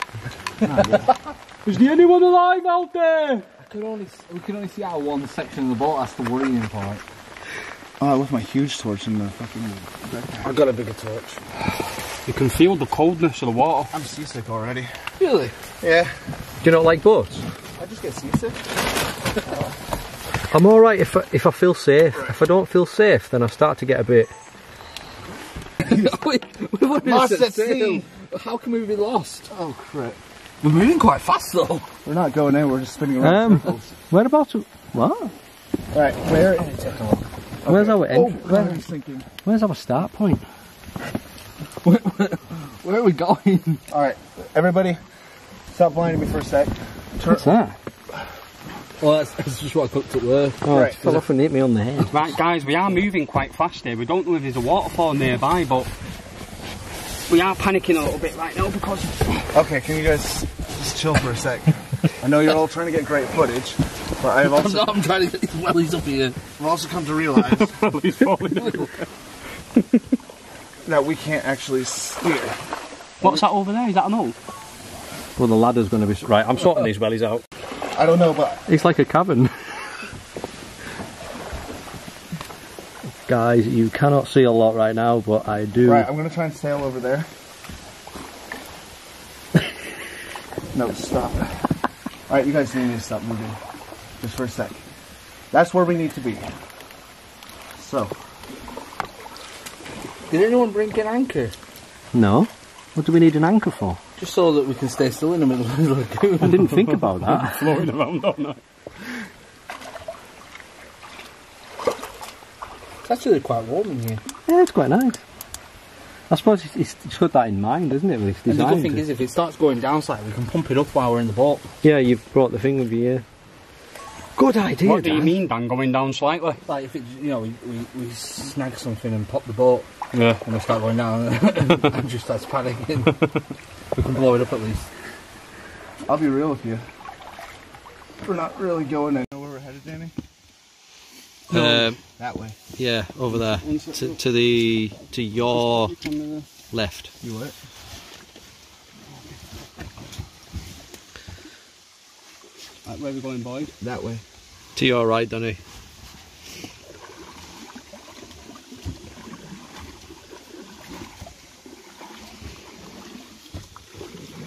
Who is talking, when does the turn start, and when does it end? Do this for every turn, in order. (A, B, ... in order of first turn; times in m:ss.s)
0:00.6-0:01.2 A
0:00.8-0:07.0 B
0:08.0-0:10.5 A
0:10.4-0:11.4 B
0:12.3-0:13.9 C
0:13.9-0:14.9 A
0:15.2-0:15.6 B
0:15.8-0:16.3 A
0:16.6-0:17.4 D
0:17.8-0:18.7 A
0:19.4-0:19.8 A
0:20.5-0:24.3 D
0:25.8-0:29.5 B
0:27.0-0:28.1 A
0:29.5-0:30.2 A
0:30.6-0:31.9 B
0:32.0-0:33.9 A
0:33.2-0:35.3 D
0:35.9-0:36.8 A
0:36.5-0:37.2 B
0:37.6-0:39.3 A
0:37.7-0:38.8 D
0:39.4-0:40.4 D
0:41.8-0:43.8 B
0:43.9-0:45.0 A
0:45.7-0:47.5 A
0:47.3-0:47.8 D
0:49.0-0:51.2 B
0:50.6-0:52.1 D
0:50.7-0:51.0 A
0:52.1-0:55.9 C
0:57.3-0:59.5 C
0:59.5-1:05.0 A
1:04.4-1:06.4 B
1:06.6-1:07.8 A
1:07.4-1:09.1 C
1:10.8-1:12.6 A
1:13.2-1:14.4 C
1:15.4-1:17.4 D
1:17.9-1:18.7 A
1:18.7-1:19.7 D
1:23.3-1:26.1 D
1:25.8-1:27.3 A
1:30.7-1:31.8 A
1:32.3-1:33.6 A
1:34.2-1:34.8 A
1:35.5-1:36.5 A
1:37.8-1:38.2 A
1:40.3-1:41.6 B
1:42.1-1:44.0 D
1:44.2-1:47.0 B
1:46.4-1:47.8 D
1:46.6-1:48.6 C
1:53.0-1:54.2 B
1:54.5-1:55.2 D
1:56.3-1:59.0 D
1:58.5-2:01.7 B
2:01.8-2:03.2 D
2:04.4-2:05.4 D
2:04.8-2:06.6 C
2:06.7-2:09.9 B
2:10.1-2:10.4 D
2:10.4-2:13.4 B
2:13.9-2:14.9 B
2:16.0-2:16.9 A
2:18.2-2:20.1 A
2:21.5-2:22.0 D
2:21.5-2:22.6 A
2:22.8-2:25.9 D
2:23.4-2:24.2 C
2:25.5-2:26.5 C
2:26.7-2:27.1 D
2:27.2-2:27.6 A
2:32.8-2:33.8 C
2:33.8-2:34.2 A
2:34.8-2:35.6 D